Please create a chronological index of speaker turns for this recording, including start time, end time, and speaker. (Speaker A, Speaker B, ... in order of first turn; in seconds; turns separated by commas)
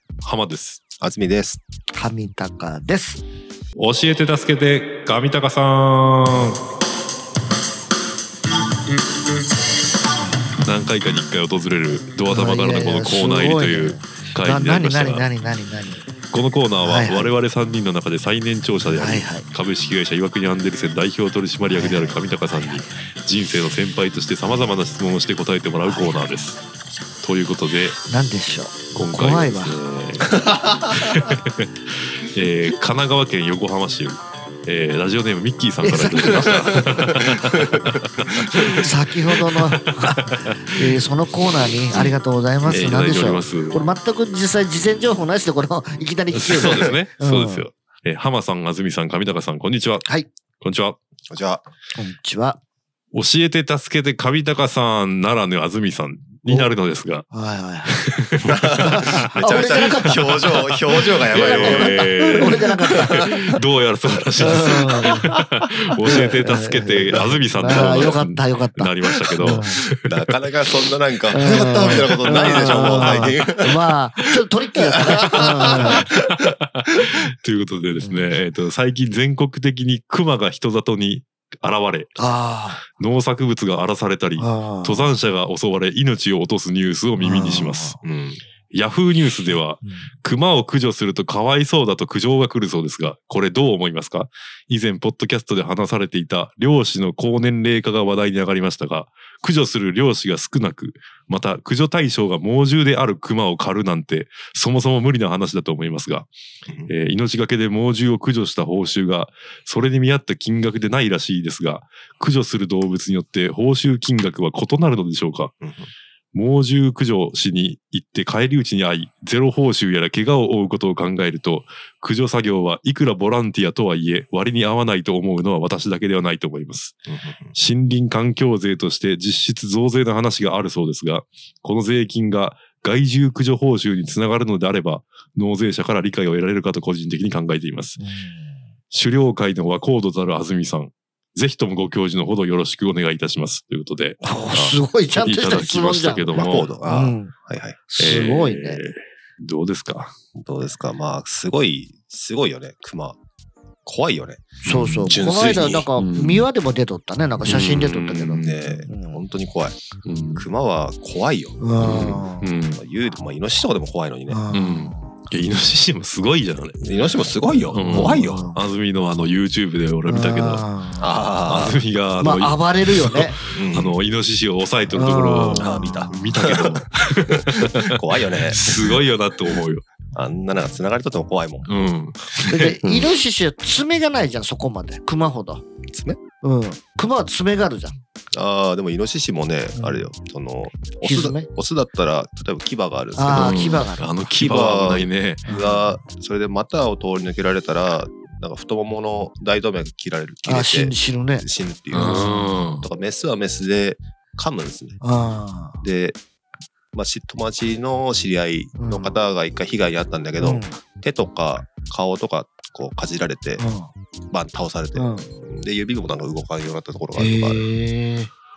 Speaker A: 0.2-0.8, Speaker B: 1.0-1.6, Speaker C: 1.9-3.2, Speaker A: 3.7-6.6, Speaker A: 10.6-15.3, Speaker C: 12.3-16.1, Speaker A: 16.3-26.6, Speaker C: 16.8-17.3, Speaker C: 18.9-19.4, Speaker C: 21.7-22.9, Speaker C: 25.8-26.3, Speaker A: 27.2-28.0, Speaker C: 28.0-29.8, Speaker A: 28.9-41.0, Speaker B: 30.3-31.3, Speaker C: 35.8-36.9, Speaker B: 36.8-38.8, Speaker C: 38.7-47.6, Speaker A: 41.9-43.8, Speaker A: 46.3-50.0, Speaker A: 50.6-51.0, Speaker B: 51.3-51.6, Speaker C: 52.0-52.6, Speaker A: 53.1-57.3, Speaker C: 57.3-58.0, Speaker A: 57.8-70.9, Speaker B: 58.4-63.4, Speaker C: 58.8-60.5, Speaker C: 61.0-63.4, Speaker B: 64.3-65.4, Speaker C: 64.4-65.3, Speaker B: 66.0-66.4, Speaker C: 66.0-69.8, Speaker B: 67.1-68.2, Speaker B: 69.2-73.8, Speaker C: 71.3-76.1, Speaker A: 71.8-74.4, Speaker B: 75.1-76.5, Speaker A: 75.2-82.1, Speaker C: 78.0-78.3, Speaker C: 82.2-82.8, Speaker A: 82.9-88.0, Speaker C: 84.4-85.1, Speaker C: 87.2-88.0, Speaker B: 88.0-88.4, Speaker A: 88.7-106.3, Speaker B: 106.7-106.9, Speaker A: 106.9-115.5, Speaker B: 115.6-115.9, Speaker A: 116.3-127.0, Speaker B: 127.1-127.5, Speaker A: 127.5-138.0, Speaker C: 138.0-138.6, Speaker A: 138.9-144.2, Speaker C: 144.2-147.3, Speaker A: 145.1-146.7, Speaker B: 146.3-147.8, Speaker C: 147.9-148.8, Speaker A: 148.0-150.1, Speaker B: 150.3-153.2, Speaker B: 153.8-154.5, Speaker A: 154.6-155.2, Speaker C: 154.6-159.2, Speaker B: 155.1-155.9, Speaker A: 156.0-156.5, Speaker A: 157.4-158.8, Speaker B: 158.4-159.8, Speaker A: 160.0-160.5, Speaker B: 160.3-162.2, Speaker C: 161.6-162.5, Speaker A: 161.8-162.8, Speaker B: 162.8-164.4, Speaker C: 164.3-165.1, Speaker A: 164.5-166.8, Speaker B: 166.8-168.5, Speaker A: 167.7-170.6, Speaker C: 167.8-168.6, Speaker C: 170.1-171.1, Speaker B: 171.0-171.8, Speaker A: 171.4-179.8, Speaker C: 172.2-173.4, Speaker B: 173.5-174.0, Speaker C: 174.9-176.3, Speaker B: 175.5-179.0, Speaker B: 180.1-181.7, Speaker A: 181.7-182.8, Speaker C: 182.5-185.6, Speaker B: 182.8-183.1, Speaker B: 185.9-186.2, Speaker C: 186.4-188.0, Speaker B: 188.3-193.8, Speaker C: 189.7-190.1, Speaker C: 191.0-191.5, Speaker C: 193.2-194.3, Speaker A: 193.3-195.5, Speaker B: 194.3-205.0, Speaker C: 195.5-195.8, Speaker C: 200.4-202.5, Speaker A: 201.9-202.8, Speaker C: 205.0-205.8, Speaker B: 205.8-206.2, Speaker B: 206.9-213.6, Speaker C: 208.8-209.1, Speaker C: 210.4-210.7, Speaker C: 213.6-213.9, Speaker B: 214.3-217.7, Speaker C: 214.9-215.3, Speaker C: 217.2-218.3